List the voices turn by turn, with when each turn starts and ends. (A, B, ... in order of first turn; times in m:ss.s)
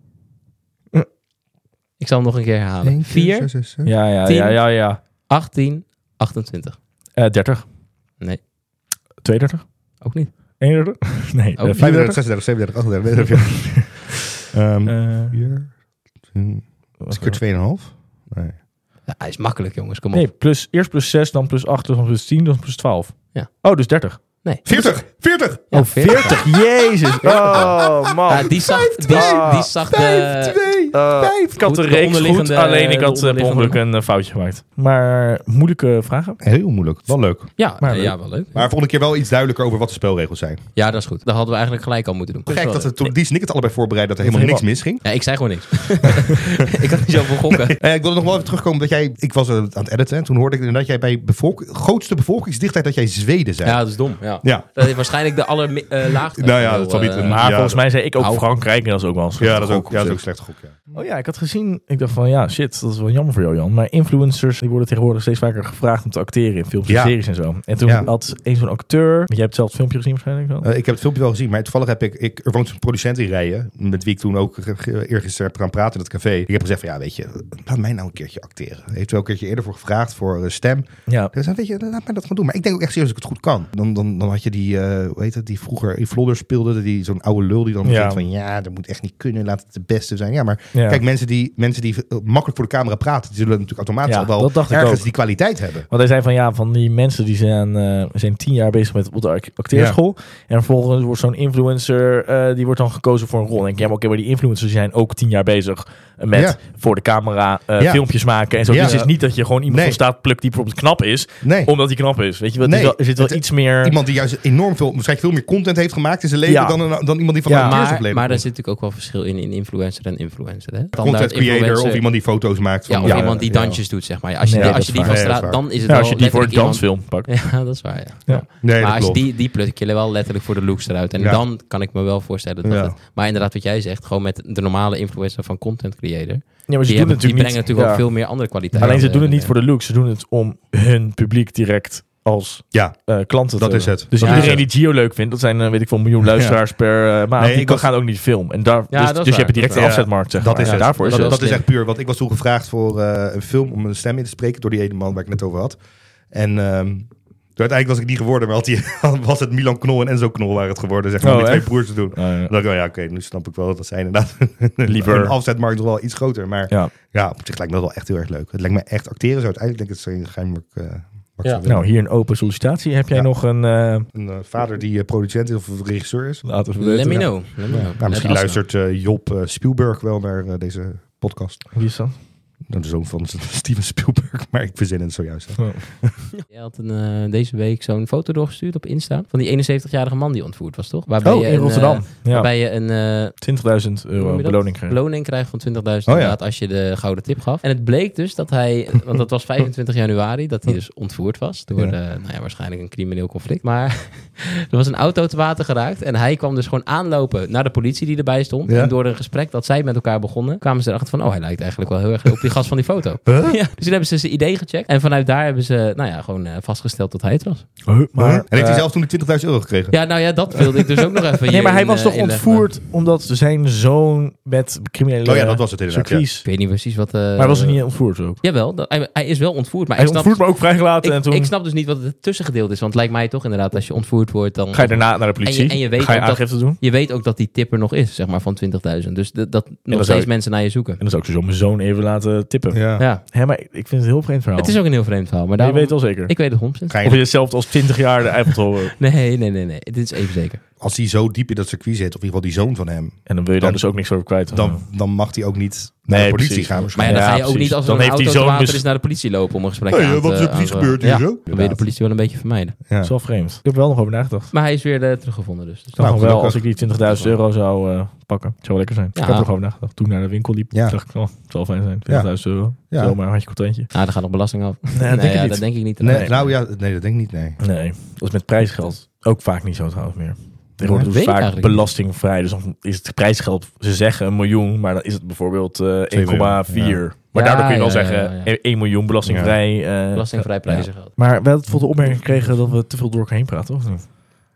0:02.0-0:03.5 A
0:02.8-0:03.9 B
0:03.8-0:05.0 C
0:04.2-0:06.8 A
0:07.2-0:07.6 C
0:09.2-0:10.0 C
0:10.0-0:10.3 A
0:10.6-0:12.2 C
0:11.6-0:11.9 A
0:11.8-0:15.7 B
0:13.3-0:14.0 C
0:14.9-0:15.4 C
0:16.3-0:18.6 B
0:17.0-0:17.4 C
0:19.1-0:20.3 A
0:20.1-0:24.9 C
0:24.6-0:25.6 B
0:25.7-0:26.4 A
0:25.7-0:29.7 C
0:27.2-0:31.6 B
0:28.3-0:30.6 A
0:30.9-0:36.4 C
0:31.6-0:33.8 A
0:36.4-0:37.6 B
0:37.6-0:38.6 A
0:37.8-0:38.2 C
0:38.5-0:40.6 B
0:40.8-0:43.1 A
0:42.5-0:45.0 B
0:44.2-0:44.7 C
0:45.0-0:47.8 A
0:47.5-0:53.9 B
0:53.6-0:58.5 A
0:54.4-0:54.9 B
0:56.4-0:57.8 B
0:57.2-1:00.2 C
0:59.4-1:01.0 B
1:00.9-1:10.7 C
1:06.9-1:07.2 B
1:07.8-1:08.1 B
1:10.6-1:35.9 B
1:21.1-1:21.3 C
1:27.8-1:28.2 C
1:30.7-1:31.0 C
1:34.1-1:35.2 C
1:35.9-1:54.0 C
1:39.7-1:40.0 B
1:46.3-1:46.6 B
1:47.8-1:50.0 B
1:48.8-1:49.1 A
1:51.4-1:51.8 B
1:52.6-1:58.4 B
1:56.5-1:56.8 C
1:57.4-1:57.8 C
1:57.5-2:02.1 A
2:01.0-2:03.9 B
2:02.9-2:19.5 A
2:03.0-2:03.3 C
2:04.4-2:07.4 C
2:04.5-2:05.6 B
2:08.6-2:09.2 B
2:12.6-2:13.0 B
2:16.7-2:31.4 C
2:18.7-2:19.0 B
2:22.7-2:24.7 B
2:24.2-2:24.6 A
2:26.2-2:26.6 B
2:27.4-2:27.9 B
2:28.9-2:31.7 A
2:29.6-2:35.8 B
2:36.3-2:51.9 B
2:41.2-2:42.5 C
2:44.9-2:45.4 C
2:51.6-2:54.1 C
2:54.1-2:56.5 B
2:56.4-2:57.3 C
2:56.7-2:58.6 A
2:57.1-3:01.8 B
3:01.7-3:02.2 C
3:02.7-3:06.2 B
3:05.6-3:05.9 C
3:06.5-3:13.4 A
3:11.2-3:15.0 C
3:14.2-3:37.7 A
3:16.1-3:16.4 B
3:28.7-3:28.9 B
3:33.3-3:33.6 B
3:37.9-3:38.9 C
3:38.2-3:40.1 B
3:39.9-3:42.7 A
3:41.5-3:46.5 C
3:45.2-3:46.3 B
3:46.4-4:01.0 A
3:47.4-3:48.4 C
3:50.0-3:51.5 C
3:54.7-3:56.8 C
3:59.9-4:04.8 C
4:02.7-4:03.0 B
4:03.0-4:03.2 A
4:04.6-4:07.0 A
4:05.6-4:09.0 C
4:06.9-4:07.3 B
4:09.0-4:10.6 A
4:10.8-4:17.3 B
4:13.3-4:14.8 C
4:16.1-4:18.8 C
4:17.0-4:22.8 A
4:19.9-4:21.9 B
4:22.9-4:23.1 B
4:23.0-4:24.5 C
4:24.5-4:26.2 A
4:26.0-4:26.7 B
4:26.0-4:33.9 C
4:26.8-4:27.4 A
4:29.2-4:29.5 A
4:30.7-4:31.0 B
4:32.1-4:33.2 B
4:33.9-4:36.6 A
4:35.0-4:36.3 C
4:36.0-4:37.6 B
4:37.6-4:54.1 C
4:40.8-4:41.1 B
4:41.1-4:41.9 A
4:46.1-4:47.0 B
4:47.3-4:48.5 A
4:49.2-4:49.6 B
4:50.1-4:51.2 A